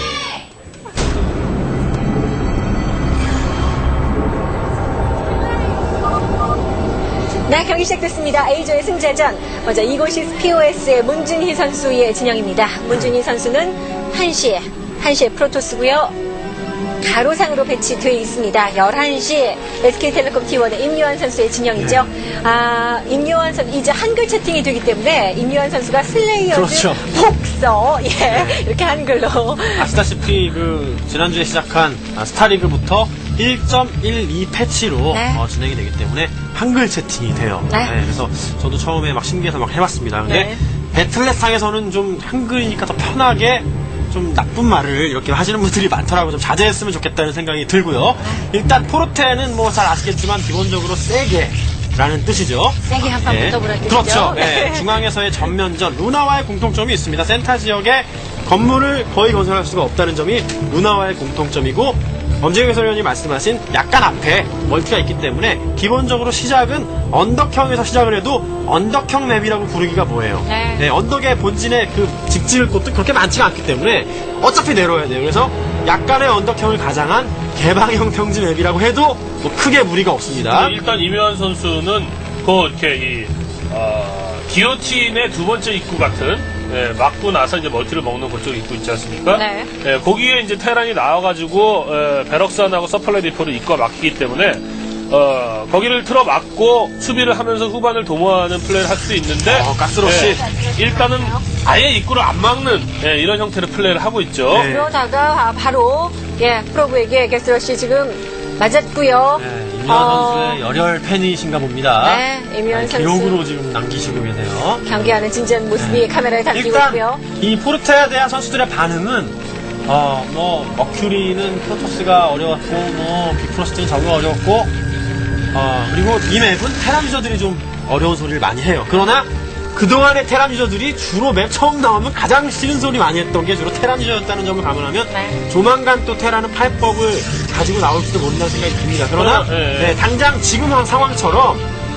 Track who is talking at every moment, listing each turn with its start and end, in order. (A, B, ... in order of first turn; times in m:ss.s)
0:07.5-0:16.1 A
0:17.0-0:29.9 A
0:21.8-0:22.0 B
0:26.5-0:27.0 B
0:28.3-0:28.6 B
0:29.8-1:20.7 B
0:35.1-0:35.4 A
0:37.7-0:38.0 A
0:40.3-0:40.6 A
0:52.9-0:54.9 A
1:10.5-1:10.9 A
1:20.5-1:44.7 C
1:29.3-1:29.7 A
1:39.4-1:40.4 B
1:40.2-1:41.4 A
1:44.5-1:44.9 B
1:44.6-1:50.6 A
1:49.4-1:54.8 B
1:52.0-1:53.4 A
1:54.8-1:57.2 A
1:55.8-2:04.7 B
2:05.5-2:21.6 B
2:15.1-2:15.4 A
2:19.2-2:20.0 C